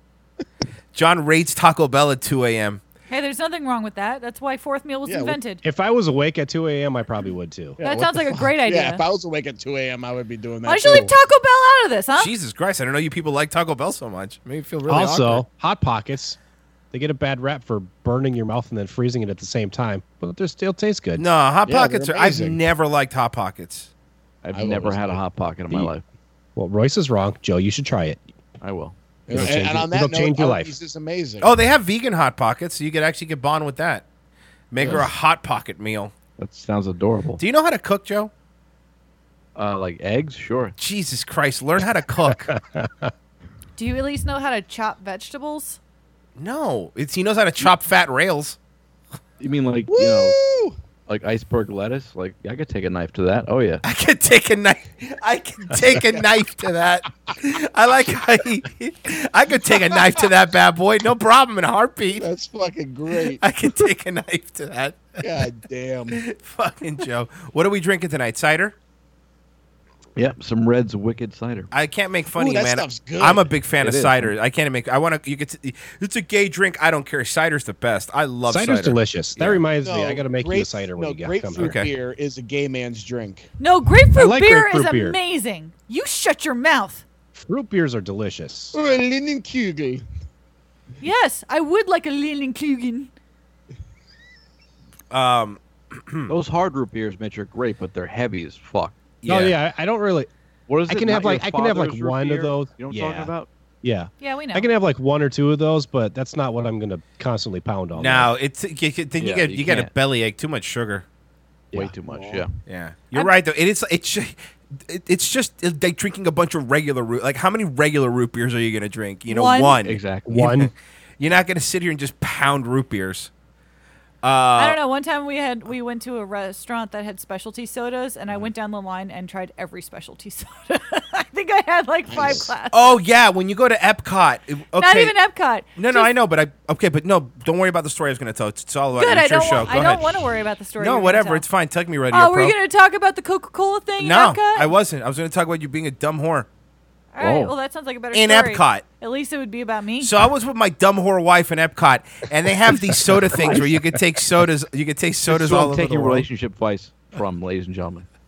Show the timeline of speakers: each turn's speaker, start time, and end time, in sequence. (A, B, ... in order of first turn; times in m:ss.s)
0:00.9-0:02.8 A
0:03.1-0:05.6 B
0:05.0-0:05.4 C
0:05.6-0:07.8 D
0:07.8-0:11.1 C
0:07.8-0:09.0 B
0:10.6-0:12.3 B
0:12.2-0:15.4 A
0:14.9-0:16.4 D
0:16.9-0:21.2 D
0:21.2-0:23.9 A
0:21.6-0:22.6 C
0:24.4-0:26.0 E
0:24.5-0:25.2 C
0:26.6-0:28.2 D
0:28.6-0:28.9 E
0:29.3-0:31.5 C
0:29.3-0:30.7 D
0:31.4-0:34.0 A
0:34.7-0:36.1 A
0:34.8-0:35.0 C
0:36.4-0:37.4 E
0:37.4-0:38.3 A
0:39.6-0:40.7 E
0:40.8-0:42.5 A
0:42.5-0:43.1 D
0:43.8-0:45.8 B
0:46.4-0:48.6 A
0:49.4-0:50.4 E
0:49.9-0:50.7 C
0:51.1-0:53.8 E
0:53.8-1:02.3 A
1:02.2-1:03.4 C
1:03.4-1:05.2 A
1:05.2-1:06.2 C
1:06.1-1:08.7 A
1:10.2-1:11.7 E
1:11.7-1:19.6 A
1:12.3-1:13.5 C
1:13.8-1:14.3 E
1:18.5-1:21.8 D
1:19.8-1:23.5 C
1:21.6-1:21.9 A
1:23.6-1:27.0 B
1:24.1-1:25.2 D
1:27.4-1:28.8 D
1:28.7-1:30.0 C
1:31.0-1:33.1 B
1:35.1-1:36.3 A
1:36.3-1:38.9 E
1:39.2-1:39.6 A
1:39.2-1:40.3 D
1:40.7-1:43.5 E
1:40.9-1:43.3 D
1:43.8-1:48.3 D
1:44.2-1:44.7 B
1:48.0-1:51.0 A
1:49.2-1:49.9 E
1:51.7-1:52.5 E
1:52.1-1:52.4 C
1:52.6-2:03.3 A
1:59.3-1:59.8 B
1:59.8-2:00.4 E
2:00.2-2:00.7 D
2:04.2-2:04.8 A
2:04.6-2:13.0 B
2:12.1-2:12.5 C
2:12.7-2:15.2 A
2:14.8-2:16.1 B
2:15.8-2:20.2 A
2:19.0-2:21.4 B
2:20.8-2:22.6 A
2:22.1-2:24.7 B
2:24.0-2:26.5 A
2:27.1-2:30.1 B
2:27.2-2:27.5 E
2:28.1-2:28.8 A
2:30.0-2:36.2 A
2:35.3-2:38.0 E